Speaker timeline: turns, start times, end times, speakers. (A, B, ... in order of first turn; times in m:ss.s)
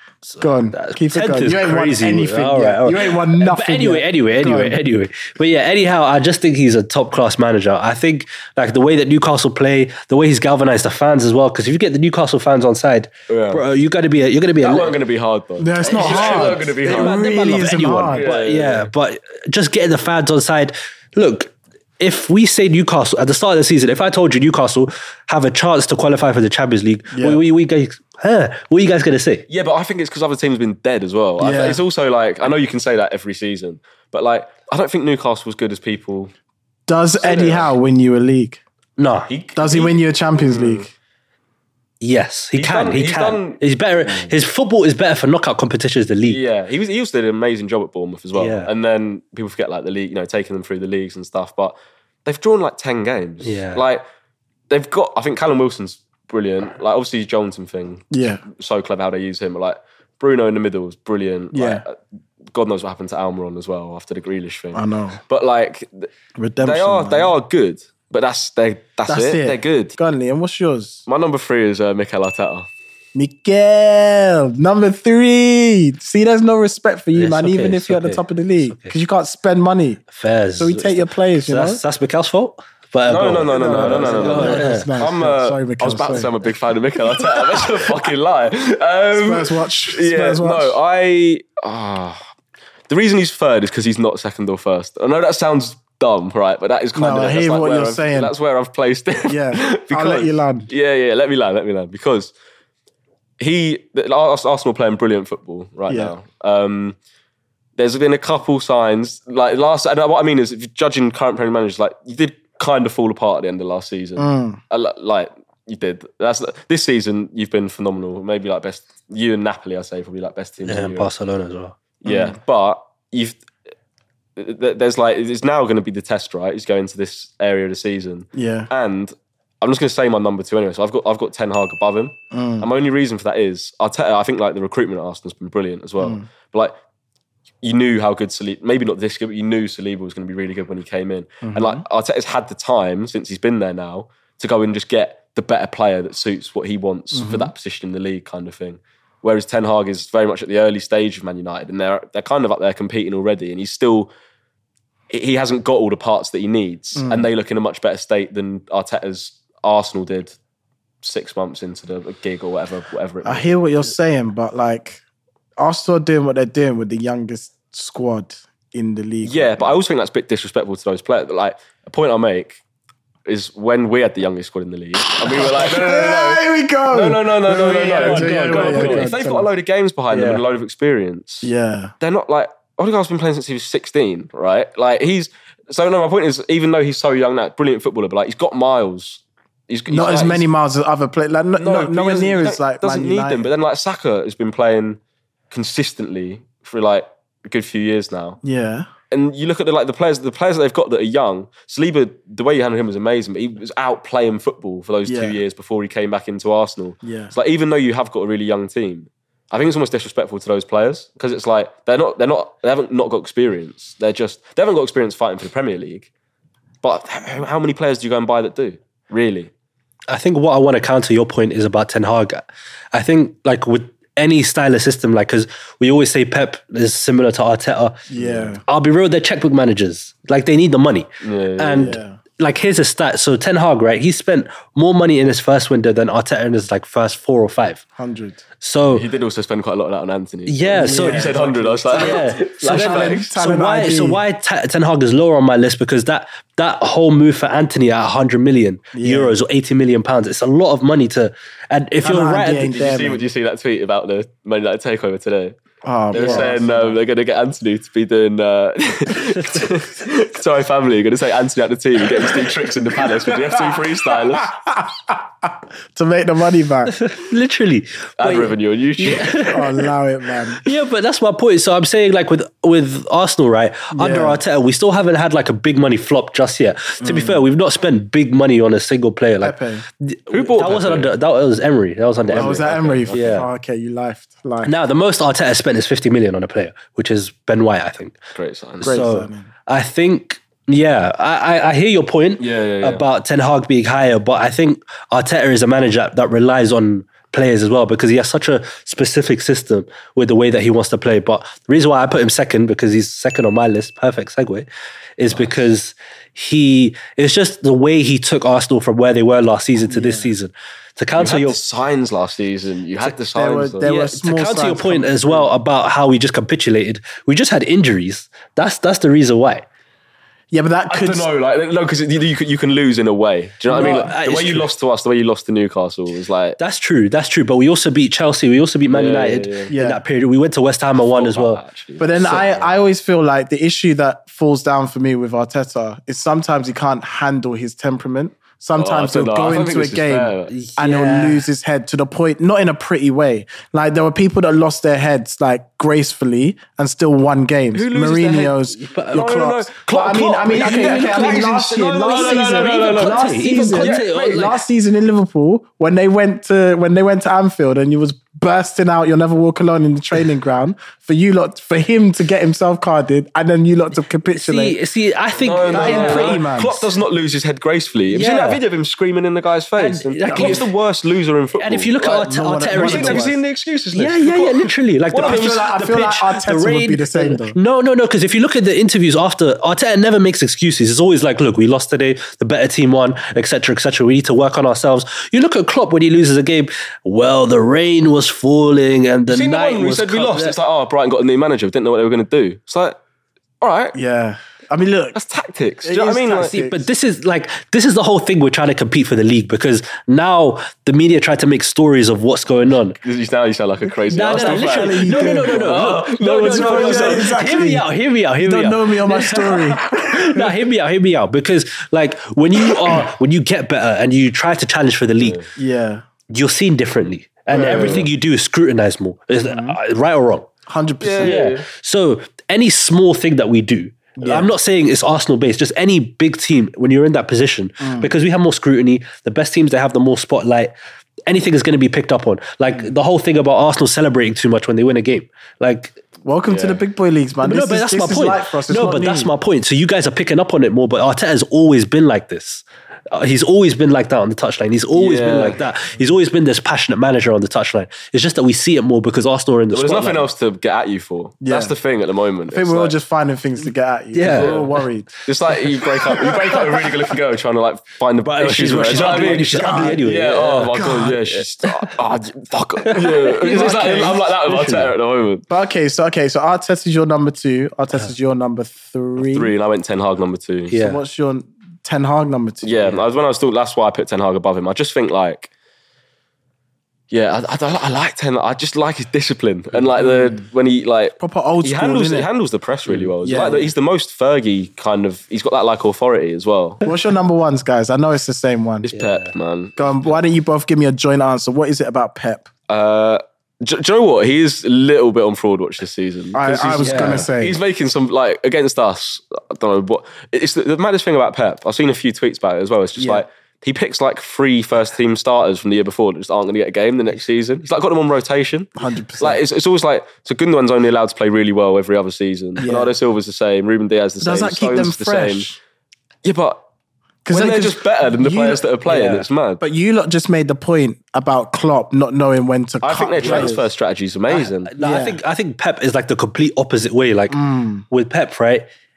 0:00.2-0:15.0 A
0:00.4-0:04.8 B
0:13.3-0:13.6 C
0:14.6-0:18.9 C
0:15.6-0:18.3 B
0:15.8-0:29.4 A
0:27.1-0:27.4 B
0:29.5-0:36.3 C
0:31.4-0:31.8 B
0:36.9-0:38.6 B
0:37.2-0:37.7 C
0:39.0-0:39.3 A
0:39.3-0:40.9 C
0:39.5-0:40.9 B
0:42.0-0:46.4 A
0:42.6-0:44.3 C
0:46.2-0:51.7 C
0:48.3-0:48.7 A
0:52.2-0:54.0 C
0:53.4-0:53.8 A
0:54.7-1:02.0 C
0:58.1-0:58.4 B
1:01.5-1:01.8 B
1:02.5-1:06.1 C
1:04.7-1:05.2 B
1:06.4-1:07.3 B
1:06.6-1:10.0 C
1:09.1-1:11.0 B
1:11.0-1:12.7 C
1:13.1-1:20.0 B
1:17.1-1:19.0 A
1:20.1-1:24.9 A
1:20.6-1:21.8 B
1:23.0-1:32.2 C
1:23.5-1:26.3 B
1:29.1-1:30.8 B
1:32.9-1:42.3 C
1:36.9-1:38.3 B
1:39.3-1:40.7 B
1:43.4-1:47.0 C
1:45.9-1:46.1 B
1:47.8-2:01.1 C
1:54.2-1:54.6 B
2:00.6-2:01.7 A
2:02.0-2:03.4 C
2:02.0-2:02.4 B
2:04.4-2:16.7 C
2:08.3-2:08.7 B
2:12.3-2:12.7 B
2:16.0-2:16.2 B
2:17.6-2:34.1 C
2:21.4-2:21.8 B
2:27.1-2:27.5 B
2:35.1-2:40.4 C
2:37.0-2:37.3 B
2:41.0-2:43.6 C
2:43.2-2:45.0 B
2:45.6-2:49.8 B
2:49.2-2:52.6 C
2:53.2-3:01.5 C
2:55.2-2:59.5 B
2:57.9-2:59.1 A
3:00.1-3:00.4 A
3:01.4-3:01.9 B
3:02.0-3:10.5 C
3:09.9-3:13.4 B
3:11.6-3:15.0 C
3:15.5-3:18.4 C
3:18.4-3:18.9 B
3:19.1-3:36.1 C
3:25.0-3:25.4 B
3:27.0-3:27.3 B
3:36.8-3:39.5 C
3:40.1-3:48.0 A
3:48.1-3:48.6 B
3:48.1-3:48.5 C
3:48.6-3:57.8 A
3:51.2-3:52.0 C
3:51.7-3:52.2 B
3:58.0-3:58.4 B
3:58.6-3:59.1 A
3:58.8-4:03.3 C
4:00.4-4:01.4 A
4:00.7-4:04.2 B
4:01.9-4:12.7 A
4:08.9-4:09.4 B
4:12.0-4:13.2 B
4:12.6-4:15.5 C
4:15.8-4:17.0 B
4:16.1-4:24.5 C
4:16.1-4:16.6 A
4:23.4-4:27.0 B
4:26.8-4:29.9 A
4:28.2-4:29.4 C
4:29.3-4:30.6 B
4:30.6-4:43.5 A
4:33.9-4:34.4 B
4:37.0-4:37.4 B
4:39.4-4:39.8 B
4:40.3-4:41.1 C
4:42.2-4:43.5 C
4:42.3-4:44.7 B
4:44.6-4:48.2 A
4:48.3-4:48.9 C
4:48.8-4:49.5 B
4:48.8-5:11.6 A
4:52.4-4:53.0 C
5:05.3-5:05.6 C
5:09.8-5:10.3 B
5:11.1-5:13.9 C
5:13.0-5:15.5 B
5:13.8-5:19.6 A
5:20.5-5:21.3 B
5:20.9-5:26.6 C
5:23.7-5:24.7 A
5:26.6-5:31.6 A
5:28.9-5:29.7 C
5:29.7-5:30.0 B
5:30.9-5:32.8 C
5:32.0-6:04.8 B
5:38.8-5:40.5 C
5:40.5-5:41.4 A
5:47.7-5:54.5 C
5:48.8-5:49.3 A
5:50.5-5:54.6 A
6:04.3-6:06.4 A
6:05.4-6:15.8 C
6:05.7-6:06.9 B
6:08.1-6:08.6 A
6:09.8-6:10.6 A
6:10.3-6:10.6 B
6:11.5-6:13.3 A
6:12.2-6:13.4 B
6:13.9-6:30.6 A
6:15.2-6:17.6 B
6:29.3-6:33.0 C
6:33.6-6:34.0 C
6:33.9-6:35.2 B
6:35.1-6:36.5 C
6:35.8-6:36.9 B
6:36.4-6:43.0 A
6:43.0-6:47.4 C
6:43.9-6:50.6 B
6:44.1-6:55.4 A
6:55.2-6:55.5 C
6:55.6-6:56.0 B
6:56.3-7:00.4 A
6:57.5-6:58.1 C
6:57.5-6:58.1 B
6:59.4-6:59.8 B
7:00.7-7:01.4 B
7:01.0-7:01.7 C
7:01.2-7:10.7 A
7:04.2-7:04.5 B
7:07.8-7:08.1 B
7:11.3-7:16.0 A
7:16.2-7:19.3 B
7:16.5-7:16.8 C
7:17.4-7:30.3 A
7:24.9-7:25.6 C
7:29.7-7:32.9 C
7:31.4-7:31.8 B
7:32.5-7:35.2 B
7:34.1-7:34.7 A
7:34.2-7:34.7 C
7:35.2-7:45.4 C
7:38.2-7:40.8 A
7:39.0-7:40.0 B
7:40.7-7:41.2 B
7:42.9-7:43.8 A
7:43.3-7:44.3 B
7:44.4-7:44.9 A
7:45.5-7:49.5 B
7:49.2-7:50.7 C
7:50.7-7:51.0 A
7:50.8-7:53.0 B
7:52.6-7:55.5 C
7:57.1-8:06.8 C
8:00.0-8:00.4 B
8:01.2-8:02.3 B
8:03.2-8:03.7 B
8:06.8-8:08.9 B
8:08.8-8:10.2 C
8:08.9-8:09.3 A
8:09.8-8:12.5 B
8:12.7-8:35.5 C
8:16.3-8:17.6 B
8:16.7-8:17.3 A
8:23.0-8:23.2 B
8:28.8-8:29.4 B
8:32.6-8:32.9 B
8:34.2-8:35.6 B
8:36.2-8:36.6 C
8:37.2-8:38.7 B
8:37.3-8:39.6 C
8:38.8-8:39.3 A
8:39.6-8:43.7 B
8:42.8-8:44.7 C
8:43.2-8:43.5 A
8:44.3-8:47.4 A
8:44.8-8:45.2 B
8:47.3-8:47.8 B
8:47.9-8:48.6 A